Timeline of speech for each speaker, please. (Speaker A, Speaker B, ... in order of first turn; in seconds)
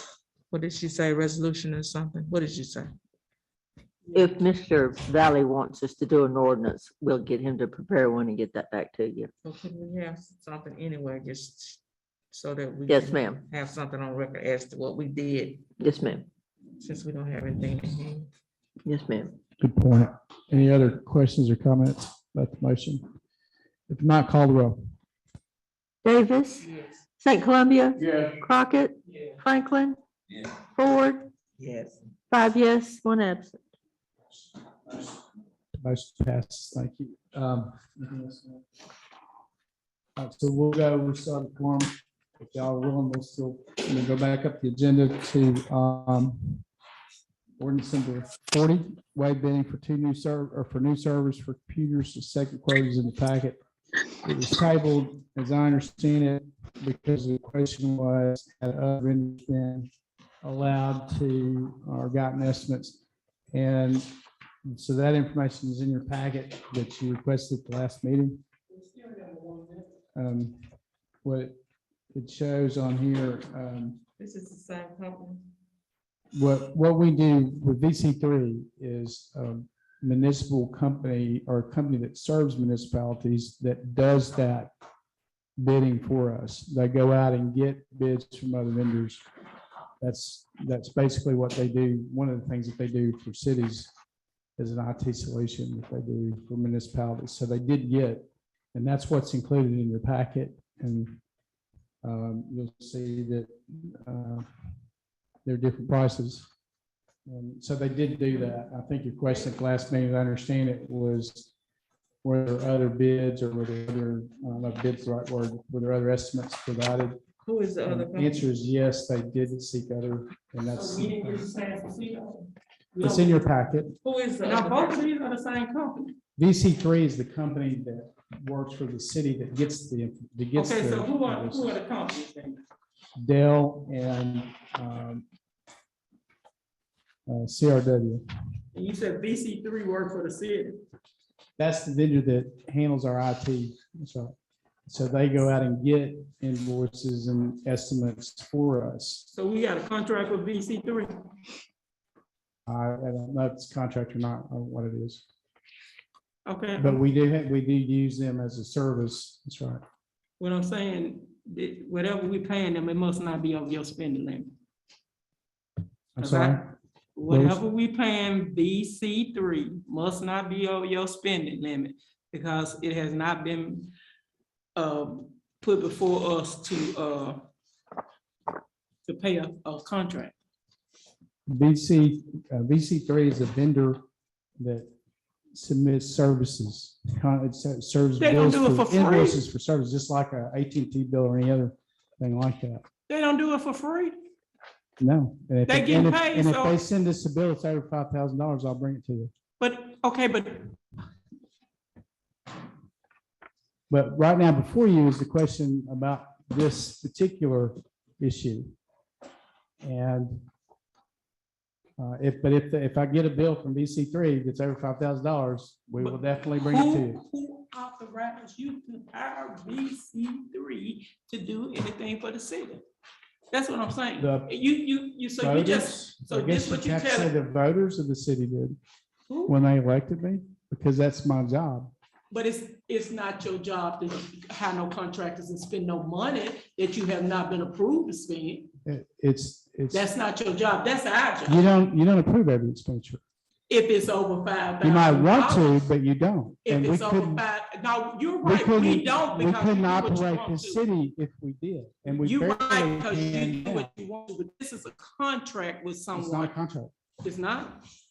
Speaker A: 0.5-2.9, 9.4-11.8, 12.3-15.7, 16.8-18.3, 31.6-32.0, 74.2-75.4, 117.4-118.5, 124.0-125.1
Speaker B: 4.1-9.3, 12.9-13.4, 15.8-16.3, 18.8-19.3, 26.1-26.7, 27.2-30.0, 30.7-31.3, 32.3-33.6
Speaker C: 19.6-23.1, 23.9-24.9, 28.0-28.4, 35.8-38.6, 40.2-46.6, 47.6-53.6, 54.2-59.9, 60.4-63.0, 63.5-64.0, 64.6-68.4, 70.1-70.7, 71.2-71.5, 72.1-74.0, 76.3-84.7, 85.6-89.2, 90.0-93.9, 94.6-101.2, 102.0-104.5, 105.4-106.5, 107.3-111.5, 112.2-117.2, 117.8-121.5, 123.0-124.0, 126.4-131.8, 133.2-135.2, 137.3-138.2, 141.6-144.4, 144.9-149.3, 152.7-155.2, 156.8-159.8, 166.2-166.6, 167.3-167.6, 181.5-184.0, 184.6-184.9, 185.5-192.9, 195.0-199.3, 203.9-208.7, 209.8-210.5, 212.0-217.2, 224.2-224.5, 225.4-228.8, 229.5-231.9, 238.8-240.1, 241.5-243.2, 244.8-247.4, 248.4-253.9, 256.1-256.9
Speaker D: 68.7-69.9, 120.7-123.4, 124.4-126.1, 130.6-132.6, 138.7-140.8, 149.3-151.2, 156.5-157.0, 160.4-164.5, 166.2-166.6, 167.2-173.9, 174.8-177.4, 179.1-180.3, 188.2-189.4, 193.1-194.2, 195.7-196.8, 199.6-200.8, 216.0-222.8, 223.5-227.3, 229.3-229.6, 232.3-238.7, 239.9-241.7, 243.7-245.9, 246.7-250.8, 252.1-256.6, 257.2-257.8